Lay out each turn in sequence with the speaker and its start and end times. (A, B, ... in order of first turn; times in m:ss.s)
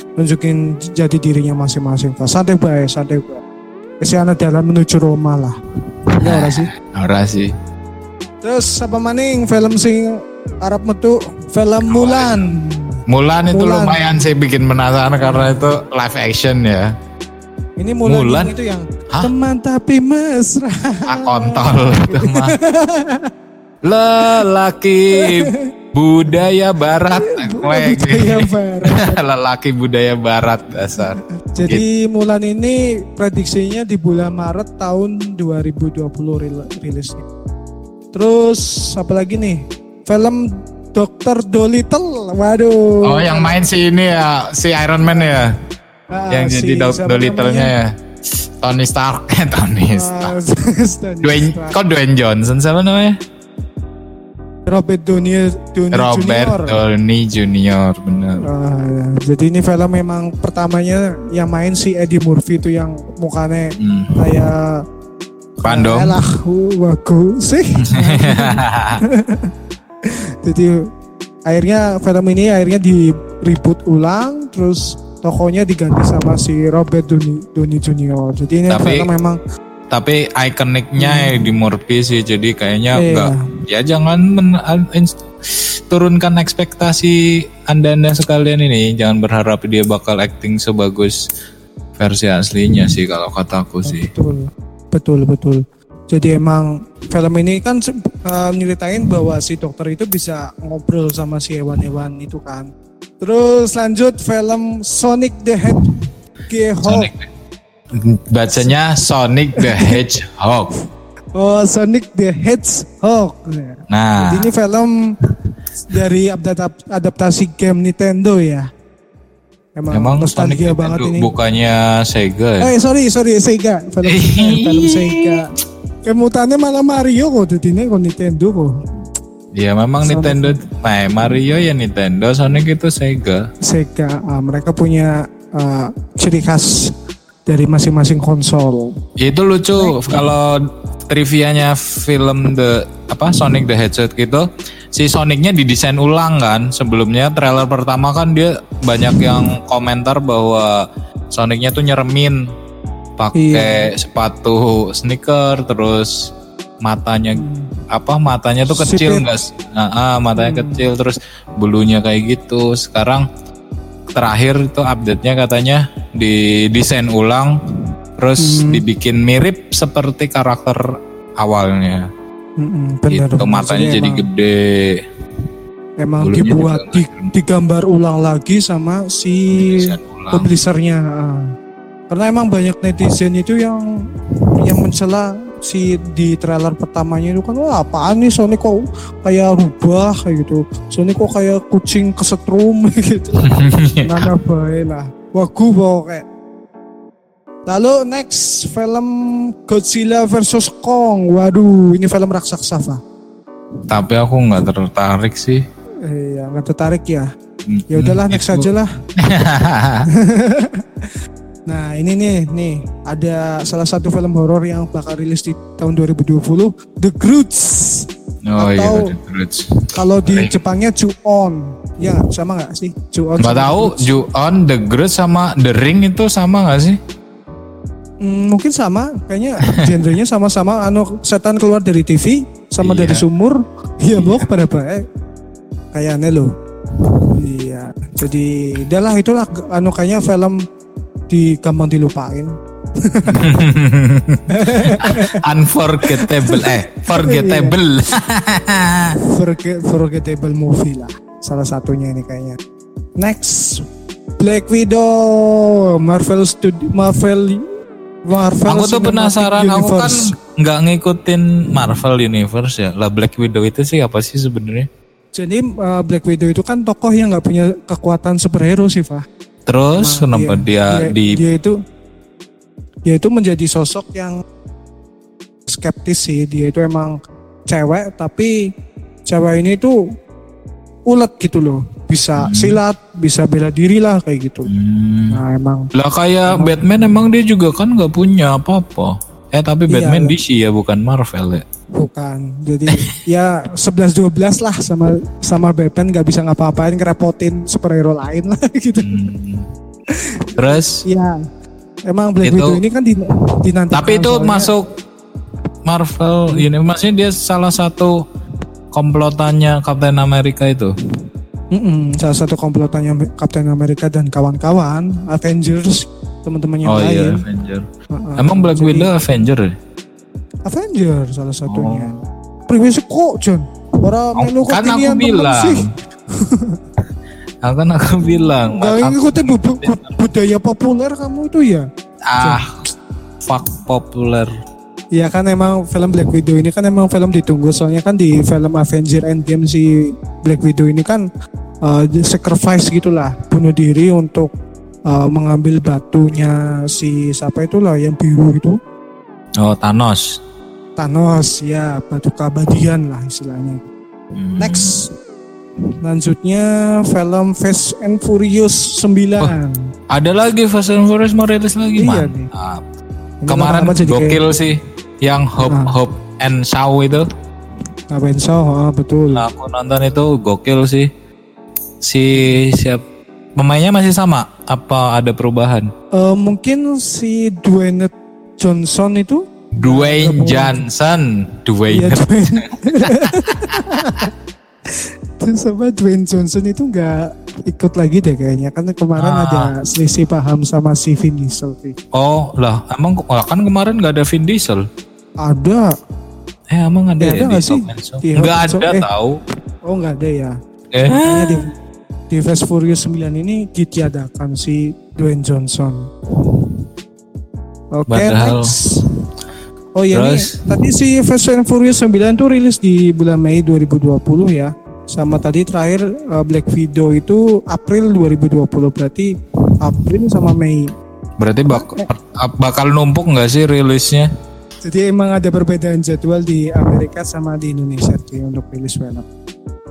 0:00.2-0:03.4 A
0:04.0-0:05.5 A
0:06.2-0:06.7 A
0:06.2-0:07.5 B
0:08.4-0:14.0 A
0:11.8-0:12.5 B
0:13.1-0:16.9 B
0:15.2-0:15.8 A
0:17.8-0:23.3 A
0:18.0-0:18.5 B
0:21.1-0:22.5 B
0:23.8-0:31.8 B
0:25.2-0:25.6 A
0:27.2-0:29.2 A
0:31.5-0:37.3 A
0:38.1-0:40.4 A
0:40.9-0:43.6 A
0:43.0-0:45.5 B
0:46.1-0:47.7 A
0:46.3-0:47.9 B
0:48.6-0:50.3 B
0:49.9-0:51.8 A
0:51.2-0:53.2 B
0:54.7-0:56.8 A
0:55.9-0:58.4 B
0:58.4-1:04.7 A
1:03.8-1:04.4 B
1:05.6-1:06.2 B
1:05.6-1:09.5 A
1:07.9-1:09.0 B
1:10.4-1:10.8 A
1:11.5-1:19.4 A
1:18.7-1:19.1 B
1:19.9-1:31.2 B
1:21.0-1:21.4 A
1:22.9-1:23.4 A
1:32.0-1:34.1 B
1:33.8-1:42.7 A
1:43.2-1:45.8 A
1:45.7-1:46.0 B
1:46.5-1:47.1 A
1:46.8-1:47.2 B
1:48.0-1:50.7 B
1:49.6-1:50.0 A
1:51.3-1:54.9 A
1:53.9-1:54.5 B
1:55.9-1:58.7 A
1:59.8-2:01.3 A
1:59.9-2:02.7 B
2:02.6-2:05.5 A
2:04.0-2:05.4 B
2:06.0-2:08.7 A
2:09.5-2:13.4 B
2:10.0-2:10.6 A
2:13.7-2:16.9 A
2:17.5-2:18.9 A
2:19.2-2:32.4 B
2:19.8-2:20.2 A
2:33.2-2:36.3 B
2:33.3-2:33.9 A
2:36.8-2:43.3 B
2:37.3-2:37.7 A
2:38.7-2:39.2 A
2:40.3-2:40.9 A
2:44.1-2:47.6 B
2:48.2-2:50.8 B
2:48.4-2:48.8 A
2:51.4-2:52.0 B
2:52.6-2:54.3 A
2:53.1-2:55.0 B
2:56.0-3:01.4 A
2:56.2-2:57.3 B
2:59.5-3:00.5 B
3:02.1-3:03.8 A
3:04.6-3:13.5 A
3:13.4-3:14.3 B
3:14.0-3:16.2 A
3:17.7-3:19.1 A
3:19.6-3:23.0 A
3:23.9-3:25.6 B
3:26.0-3:27.3 A
3:27.7-3:28.7 B
3:27.9-3:28.9 A
3:29.2-3:30.0 B
3:30.2-3:30.8 A
3:31.7-3:39.1 A
3:38.4-3:40.5 B
3:39.9-3:44.1 A
3:43.4-3:47.0 B
3:48.2-3:55.0 A
3:52.8-3:53.2 B
3:54.1-3:54.5 B
3:55.9-3:56.5 A
3:57.3-4:00.6 A
4:01.3-4:03.5 A
4:03.3-4:09.1 B
4:04.5-4:05.4 A
4:06.1-4:07.7 A
4:09.3-4:12.6 A
4:13.2-4:13.8 A
4:14.4-4:17.6 A
4:18.2-4:20.3 A
4:18.6-4:24.9 B
4:25.3-4:29.2 A
4:29.6-4:31.4 B
4:30.0-4:31.7 A
4:33.1-4:34.4 A
4:35.7-4:37.1 A
4:37.7-4:38.5 A
4:39.3-4:40.0 A
4:41.1-4:44.7 A
4:42.4-4:42.8 B
4:44.7-4:45.4 B
4:45.3-4:45.9 A
4:45.9-4:51.6 B
4:46.5-4:46.8 A
4:49.9-4:50.3 A
4:52.0-4:59.1 A
4:59.0-4:59.6 B
5:00.6-5:01.0 B
5:01.0-5:01.3 A
5:02.1-5:04.7 A
5:02.4-5:02.8 B
5:03.9-5:04.8 B
5:05.8-5:08.1 B
5:08.9-5:10.9 B
5:11.7-5:17.4 A
5:16.8-5:17.8 B
5:18.1-5:19.1 A
5:18.4-5:19.7 B
5:20.6-5:25.8 A
5:21.7-5:22.1 B
5:24.4-5:25.8 B
5:26.4-5:26.8 A
5:27.6-5:30.1 B
5:28.2-5:31.8 A
5:32.3-5:32.8 B
5:32.4-5:32.7 A
5:33.4-5:34.5 B
5:35.1-5:41.2 A
5:41.8-5:44.5 A
5:45.1-5:48.8 A
5:49.6-5:50.2 B
5:51.0-5:53.8 A
5:54.3-5:55.0 B
5:54.6-5:55.1 A
5:56.0-5:59.8 A
6:00.1-6:02.8 B
6:01.9-6:02.5 A
6:03.4-6:04.4 A
6:03.5-6:07.2 B
6:05.6-6:05.9 A
6:08.1-6:09.4 A
6:09.3-6:11.1 B
6:12.0-6:13.0 B
6:13.6-6:15.9 B
6:16.2-6:20.8 A
6:19.8-6:22.4 B
6:21.9-6:24.3 A
6:23.0-6:24.2 B
6:25.4-6:32.0 A
6:29.2-6:29.7 B
6:32.1-6:34.8 B
6:35.4-6:35.9 A
6:36.7-6:39.4 B
6:37.2-6:39.0 A
6:39.9-6:41.7 A
6:40.9-6:41.6 B
6:42.3-6:46.0 A
6:47.9-6:49.0 A
6:48.1-6:48.7 B
6:50.0-6:59.3 A
6:50.1-6:50.6 B
6:59.8-7:00.9 A
7:01.4-7:04.3 B
7:01.7-7:02.0 A
7:04.8-7:09.2 A